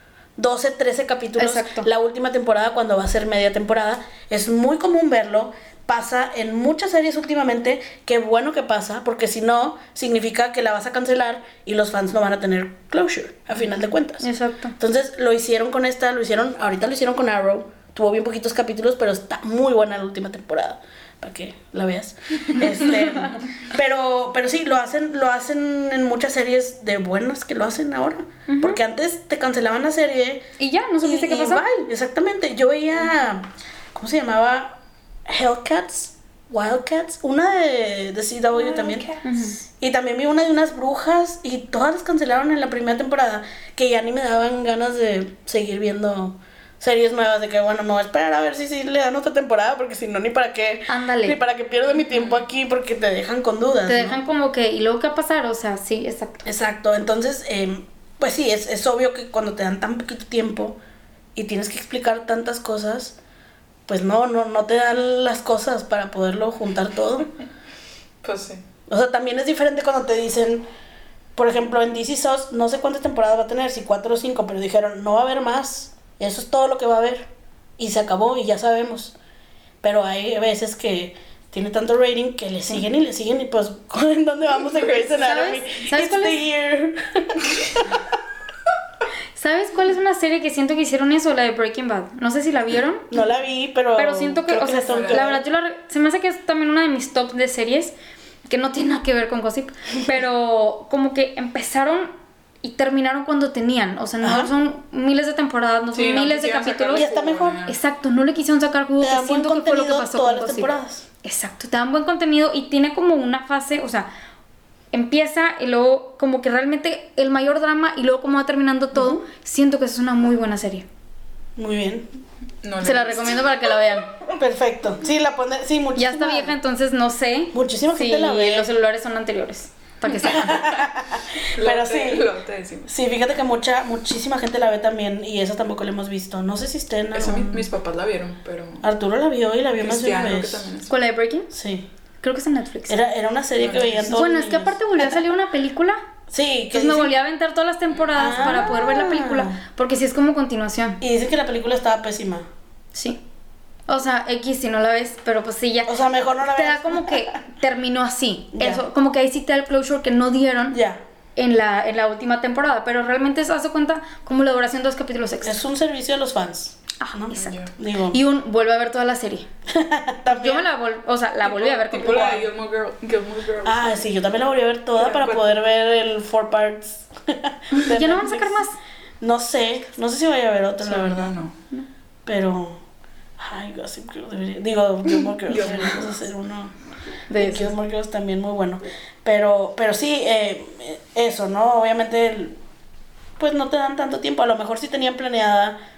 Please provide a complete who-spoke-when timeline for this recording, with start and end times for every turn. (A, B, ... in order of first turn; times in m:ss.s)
0:00.4-0:30.4 A
0:01.4-0:01.9 B
0:14.2-0:14.7 B
0:28.5-0:28.8 B
0:30.6-0:31.6 B
0:31.0-0:34.8 A
0:35.3-0:54.2 A
0:38.7-0:39.6 B
0:50.9-0:51.4 B
0:53.8-0:56.5 B
0:56.4-1:00.8 A
1:01.4-1:03.2 A
1:03.9-1:07.3 A
1:08.2-1:08.6 C
1:08.9-1:10.6 A
1:11.4-1:17.3 A
1:17.8-1:19.1 A
1:19.8-1:27.9 A
1:24.6-1:25.3 C
1:25.2-1:26.4 B
1:29.4-1:33.1 B
1:33.1-1:35.4 A
1:34.0-1:37.9 B
1:34.8-1:35.2 C
1:38.5-1:42.1 B
1:42.6-1:47.1 B
1:44.2-1:44.5 A
1:45.9-1:47.8 C
1:46.9-1:47.6 A
1:47.6-1:50.7 B
1:49.0-1:51.0 A
1:51.2-1:54.1 B
1:54.9-2:00.8 B
2:01.6-2:02.1 A
2:02.6-2:03.4 C
2:02.8-2:04.1 B
2:04.4-2:06.5 A
2:06.0-2:10.6 B
2:07.5-2:08.7 A
2:10.1-2:12.9 C
2:10.3-2:12.3 A
2:12.9-2:17.7 A
2:17.1-2:18.8 C
2:18.8-2:20.7 A
2:19.7-2:20.9 C
2:20.9-2:21.5 B
2:21.5-2:21.9 A
2:22.2-2:23.0 B
2:22.9-2:25.3 A
2:23.6-2:24.2 C
2:24.1-2:26.0 B
2:26.3-2:27.1 A
2:26.7-2:31.0 B
2:27.9-2:28.4 C
2:28.1-2:29.6 A
2:31.0-2:32.5 A
2:32.9-2:33.2 B
2:33.9-2:40.8 B
2:35.9-2:37.4 A
2:38.6-2:38.8 A
2:40.7-2:41.0 A
2:41.4-2:45.6 B
2:45.4-2:48.2 A
2:47.0-2:47.6 B
2:47.3-2:47.7 C
2:48.1-2:49.5 B
2:49.7-2:50.7 A
2:50.3-2:52.4 B
2:51.4-2:54.0 C
2:52.1-2:52.4 A
2:53.6-2:58.6 A
2:55.0-2:55.4 C
2:57.9-2:58.7 B
2:59.2-3:01.3 A
3:00.8-3:01.6 C
3:02.2-3:02.8 A
3:03.4-3:06.7 A
3:05.5-3:06.0 C
3:07.3-3:07.7 B
3:07.4-3:12.6 A
3:13.4-3:15.8 A